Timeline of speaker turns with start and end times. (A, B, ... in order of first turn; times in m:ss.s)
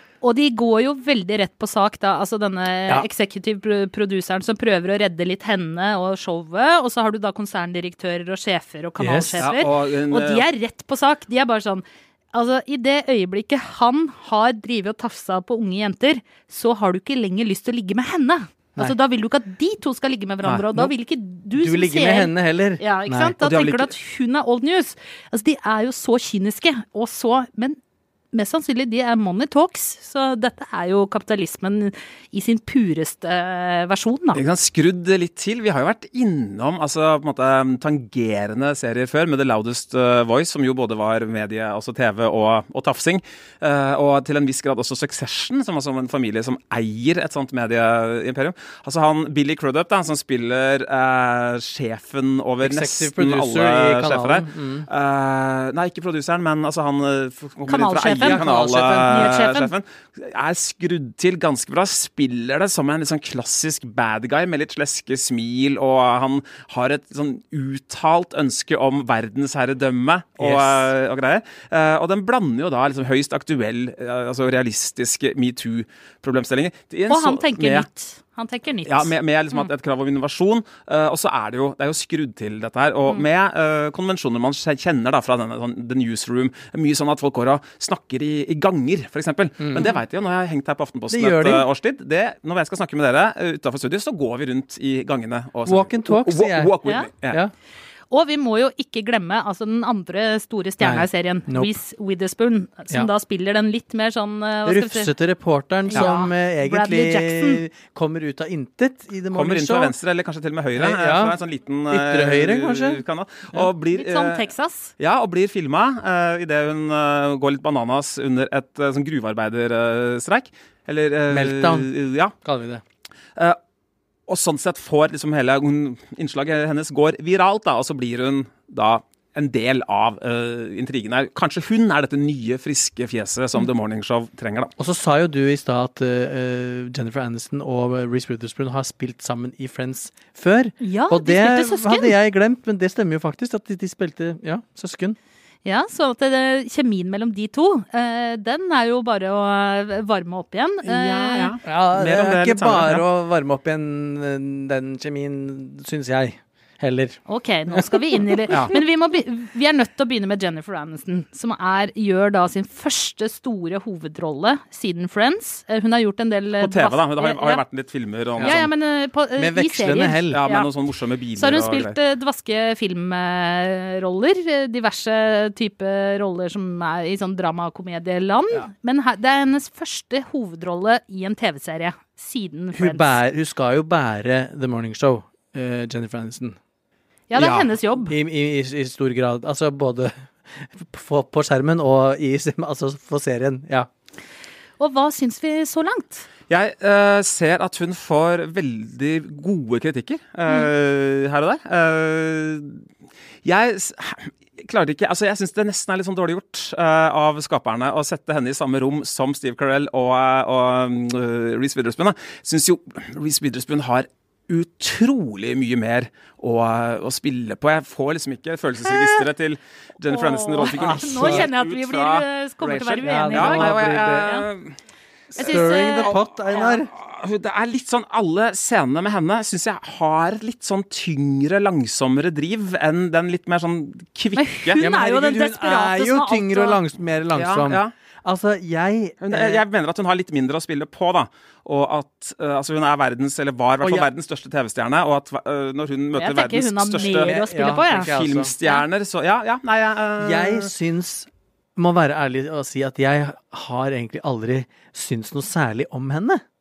0:00.2-0:27.8 A
0:09.0-0:09.4 B
0:09.4-0:10.4 C
0:21.6-0:23.4 B
0:23.4-0:23.9 C
0:28.3-0:34.4 A
0:34.3-1:17.9 C
0:52.6-0:54.9 B
0:57.7-0:58.4 A
0:58.0-0:59.4 B
0:59.1-0:59.7 A
1:10.4-1:10.9 B
1:17.1-1:19.7 A
1:18.8-1:37.4 C
1:31.1-1:31.7 B
1:35.7-1:37.5 B
1:38.1-1:45.1 A
1:40.8-1:41.7 B
1:44.6-1:49.9 B
1:45.9-1:47.6 A
1:49.3-1:54.4 C
1:50.7-1:51.4 B
1:51.9-1:53.0 B
1:53.6-1:54.9 A
1:55.0-2:02.3 C
2:01.3-2:01.9 B
2:02.4-2:02.8 B
2:04.3-2:14.7 C
2:14.8-2:25.2 B
2:20.8-2:22.2 A
2:25.6-2:31.5 A
2:30.8-2:33.0 C
2:31.6-2:37.2 B
2:37.3-2:47.6 A
2:37.7-2:38.7 B
2:46.6-2:48.7 C
2:48.4-2:48.7 B
2:48.4-2:50.7 A
2:49.4-2:50.4 B
2:50.3-2:52.0 C
2:51.4-3:03.2 A
3:02.7-3:06.6 B
3:07.3-3:08.1 A
3:07.4-3:07.7 C
3:08.0-3:13.9 B
3:14.8-3:16.3 A
3:16.5-3:22.8 C
3:23.4-3:44.7 C
3:38.9-3:39.2 A
3:40.1-3:44.4 A
3:40.6-3:41.5 B
3:43.0-3:44.4 B
3:45.3-3:54.8 C
3:45.4-3:46.8 A
3:45.4-3:46.9 B
3:54.4-3:56.8 A
3:54.8-3:59.6 B
3:57.3-3:57.9 C
3:59.2-4:07.3 C
4:03.8-4:04.1 B
4:06.2-4:08.1 A
4:07.0-4:08.5 B
4:07.9-4:10.7 C
4:10.2-4:16.4 B